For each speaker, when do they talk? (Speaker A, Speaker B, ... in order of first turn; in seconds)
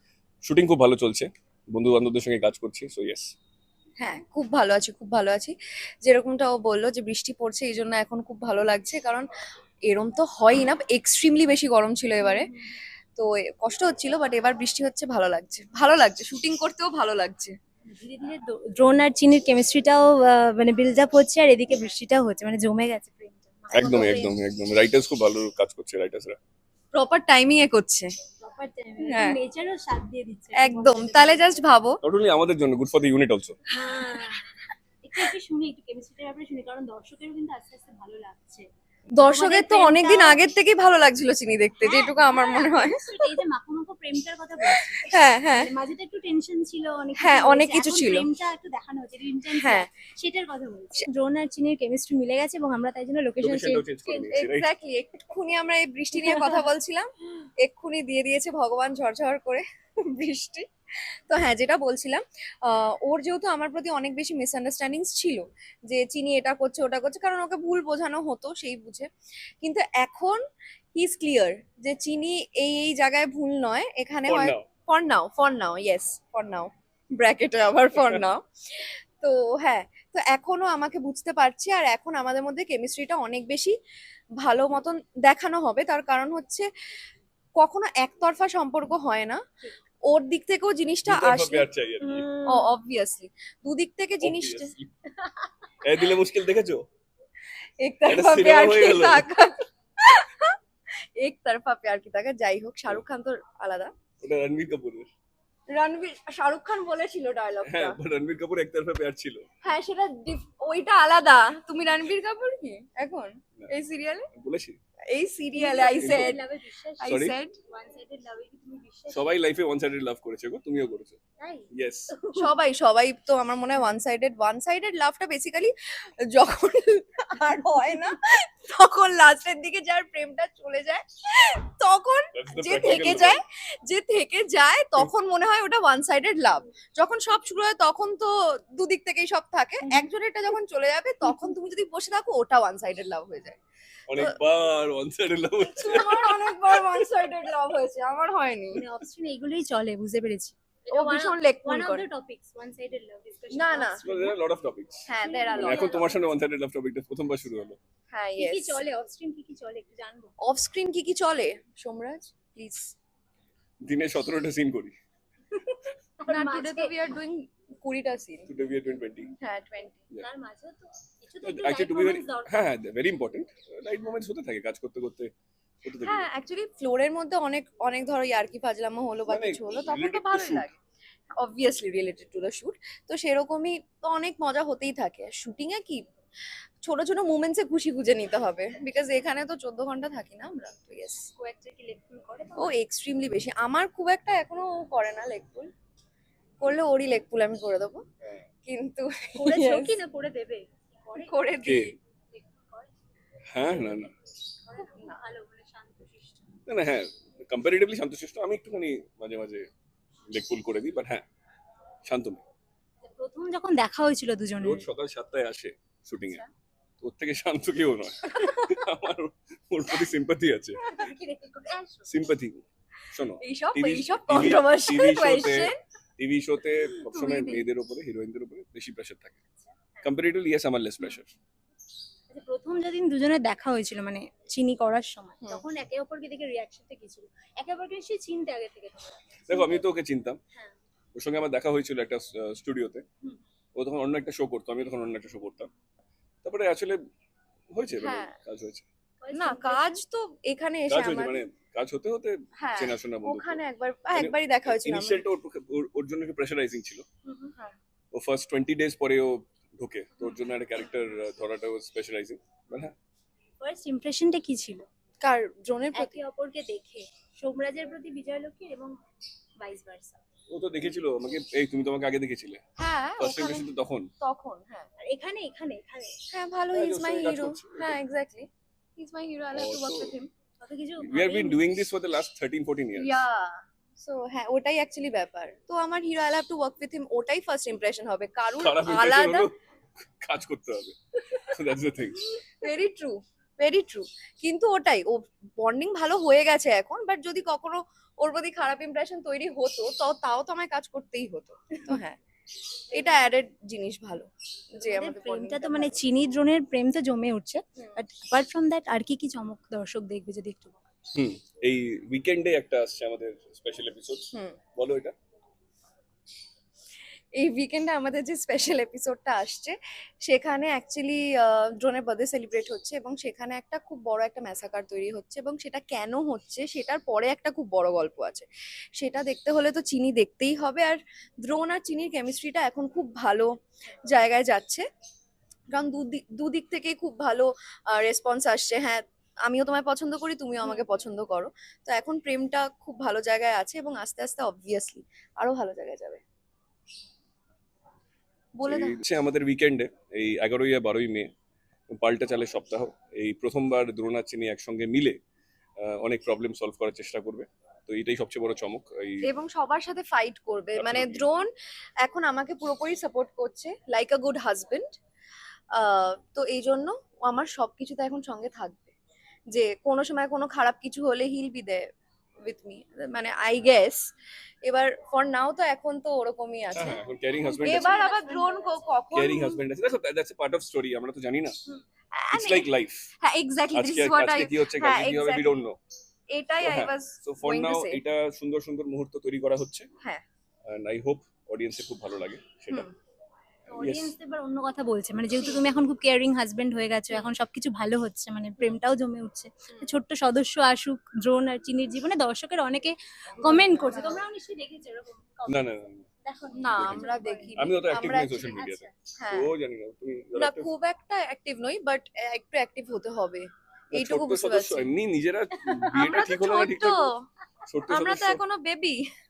Speaker A: 0.4-3.3, 23.7-26.4, 32.0-33.6, 53.4-54.7, 74.3-74.7, 78.0-78.2, 91.1-92.3, 94.2-94.9, 95.8-96.8, 98.1-99.3, 104.2-105.1, 107.7-109.5, 114.3-114.8, 115.9-116.4, 117.0-117.4, 119.1-121.2, 121.7-122.1, 132.3-133.4, 144.1-146.7, 154.0-157.8, 163.8-164.9, 168.5-169.3, 171.4-175.3, 175.8-176.3, 179.3-180.7, 201.6-202.0, 203.5-204.1, 206.7-209.7, 210.3-211.2, 212.1-212.4, 214.6-216.4, 217.0-220.8, 222.1-229.4, 230.0-231.3, 239.5-240.4, 241.2-243.1, 243.8-245.7, 246.4-247.0, 247.7-248.8, 250.9-253.6, 254.2-257.1, 258.1-262.9, 270.5-272.6, 273.2-274.1, 276.7-278.0, 279.5-280.2, 281.0-283.2, 288.6-289.6, 290.2-292.2, 311.1-315.1, 348.6-351.3, 351.9-355.2, 355.8-359.3, 360.7-361.3, 376.7-378.0, 379.1-381.6, 382.3-383.1, 383.7-385.8, 386.6-389.9, 390.7-392.9, 393.7-394.1, 405.5-406.1, 406.7-410.7, 413.9-417.1, 417.7-418.4
Speaker B: 4.0-9.3, 9.9-12.5, 13.2-17.5, 26.9-28.1, 29.0-29.4, 30.6-32.0, 39.1-43.4, 44.7-45.7, 47.2-48.3, 49.5-49.9, 54.3-57.1, 57.6-60.7, 61.3-69.1, 69.6-70.4, 71.0-83.8, 84.4-86.7, 87.6-89.4, 90.1-91.7, 92.5-94.7, 97.8-100.6, 101.2-103.9, 105.7-108.0, 109.6-114.3, 115.1-116.4, 117.0-117.6, 122.3-125.7, 126.3-143.6, 145.7-148.8, 150.9-152.1, 153.5-154.0, 155.1-156.1, 158.1-158.8, 160.4-162.9, 166.3-168.5, 169.4-170.0, 176.0-180.8, 181.4-186.0, 186.8-191.3, 192.6-195.7, 196.6-198.0, 198.7-200.0, 201.2-201.9, 218.4-218.7, 223.4-225.8, 227.1-227.7, 248.0-248.3, 249.3-251.4, 252.6-255.2, 265.2-266.2, 272.8-273.7, 274.2-274.9, 276.3-280.3, 283.0-289.5, 292.4-302.2, 302.9-306.0, 314.3-314.6, 317.4-333.5, 334.1-334.8, 335.7-346.2, 348.6-349.0, 359.2-361.5, 362.0-364.9, 365.7-368.9, 369.5-371.8, 372.4-374.1, 374.6-377.0, 377.6-379.6, 382.1-385.6, 386.3-388.0, 399.7-400.0, 403.4-404.2, 406.6-408.6, 409.2-409.5, 410.4-414.9, 415.9-417.2, 417.9-419.1
Speaker C: 12.2-12.8, 17.9-24.4, 28.4-31.6, 33.7-34.5, 35.0-38.7, 39.2-40.4, 41.8-54.3, 56.2-56.6, 92.0-92.7, 95.2-95.5, 115.5-119.4, 121.4-122.5, 139.8-140.1, 148.8-154.3, 155.2-156.2, 158.4-160.3, 166.2-166.9, 170.2-172.6, 191.4-192.7, 199.4-201.6, 202.3-202.9, 203.6-204.1, 204.7-206.5, 213.1-214.9, 220.8-222.1, 229.6-230.1, 232.3-239.8, 249.2-250.0, 257.2-257.5, 263.6-264.9, 265.9-269.0, 269.6-270.2, 275.1-276.2, 280.6-281.6, 302.9-303.2, 304.8-310.8, 340.6-340.9, 377.1-378.9, 393.7-405.7, 406.2-408.9, 415.6-416.1